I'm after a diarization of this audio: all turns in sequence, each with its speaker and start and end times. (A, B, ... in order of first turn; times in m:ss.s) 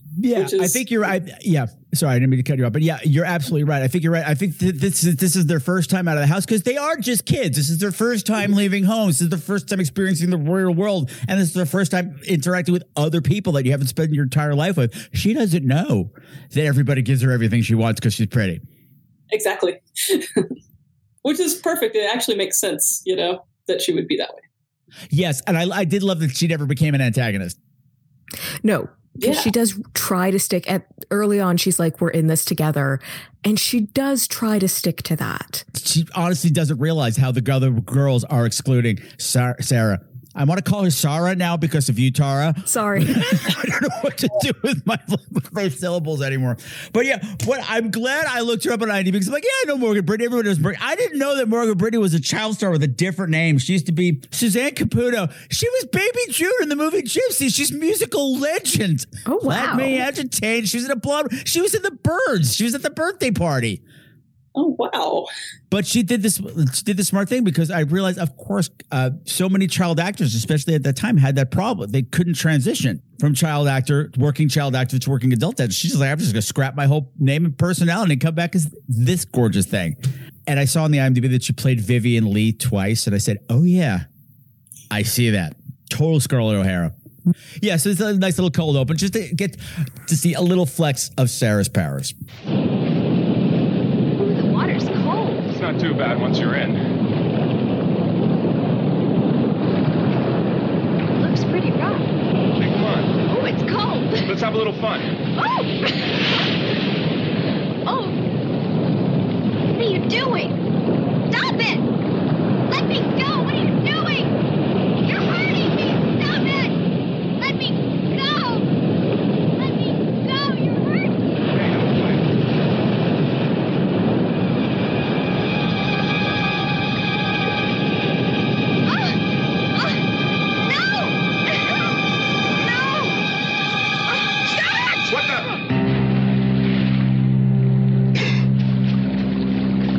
0:00.2-0:18.6 A
0:00.3-0:00.8 B
0:19.3-0:20.5 B
0:21.2-0:24.4 B
0:25.1-0:27.6 A
0:28.6-0:35.6 C
0:29.2-0:29.5 B
0:35.7-1:03.8 A
0:42.7-0:43.5 C
0:59.2-1:00.0 C
1:04.6-1:05.3 B
1:05.7-1:24.0 A
1:24.9-1:26.9 A
1:27.6-1:32.1 A
1:34.2-1:35.5 D
1:35.5-1:36.8 E
1:41.2-1:42.1 D
1:42.6-1:43.1 E
1:43.3-1:44.2 D
1:44.2-1:45.1 E
1:45.4-1:45.7 D
1:47.8-1:48.2 D
1:49.8-1:50.6 D
1:51.3-1:51.9 D
1:52.7-1:54.3 D
1:55.0-1:56.7 D
1:57.4-1:58.6 D
1:59.6-2:01.1 D
2:01.5-2:02.2 E
2:08.9-2:09.2 D
2:09.7-2:10.0 D
2:10.7-2:11.2 D
2:12.6-2:13.2 D
2:14.1-2:15.2 D
2:15.1-2:15.5 E